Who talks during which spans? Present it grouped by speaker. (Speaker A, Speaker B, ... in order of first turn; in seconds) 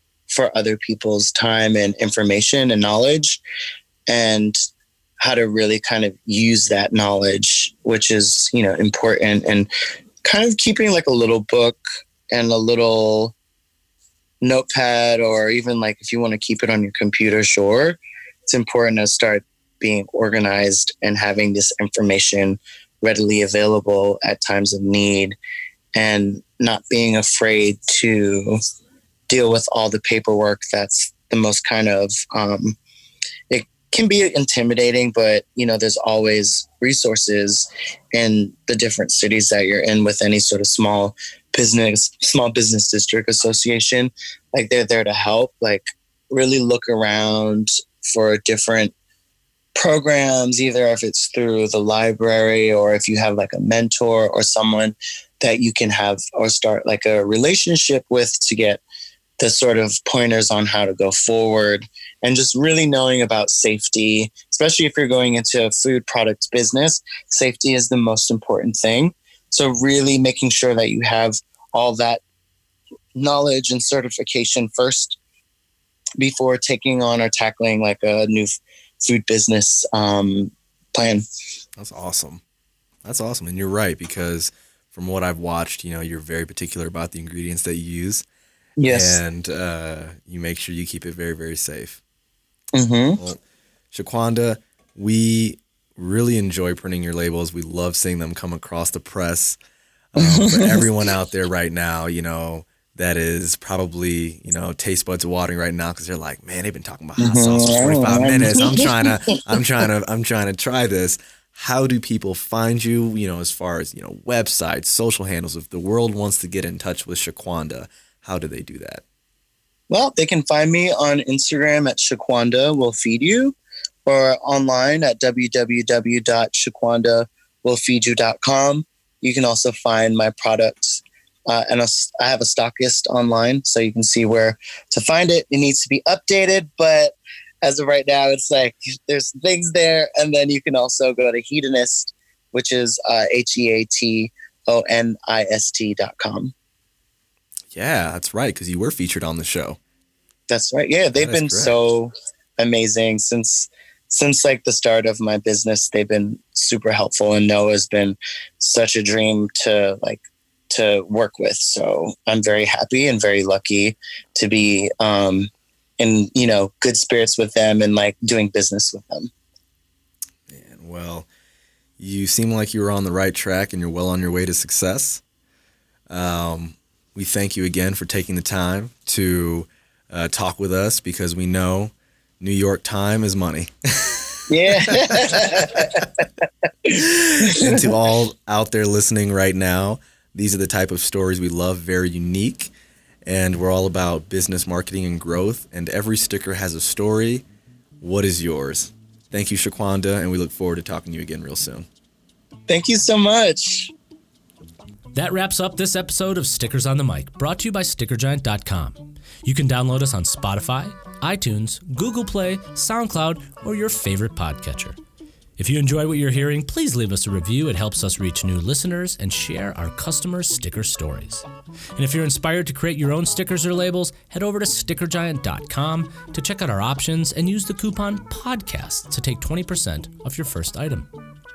Speaker A: 0.3-3.4, 4.1-4.6, 5.2-9.7, 10.2-13.3, 14.4-25.4, 25.9-28.6, 29.3-32.8, 33.5-48.9, 49.8-58.8, 59.4-72.2, 73.2-75.2, 76.2-81.2, 88.8-89.2, 92.7-93.2, 100.2-100.9, 107.2-109.1, 119.9-123.5, 124.0-146.5, 150.5-169.3, 184.5-186.2, 186.8-187.9, 202.7-203.9
Speaker B: 81.8-82.4, 83.0-88.2, 88.9-92.0, 93.9-99.6, 100.1-119.0, 147.7-149.8, 151.1-151.7, 170.5-171.3, 172.0-175.2, 176.1-186.0, 186.9-192.7, 193.2-197.4, 198.0-201.8
Speaker C: 205.1-214.9, 215.6-221.4, 221.9-231.1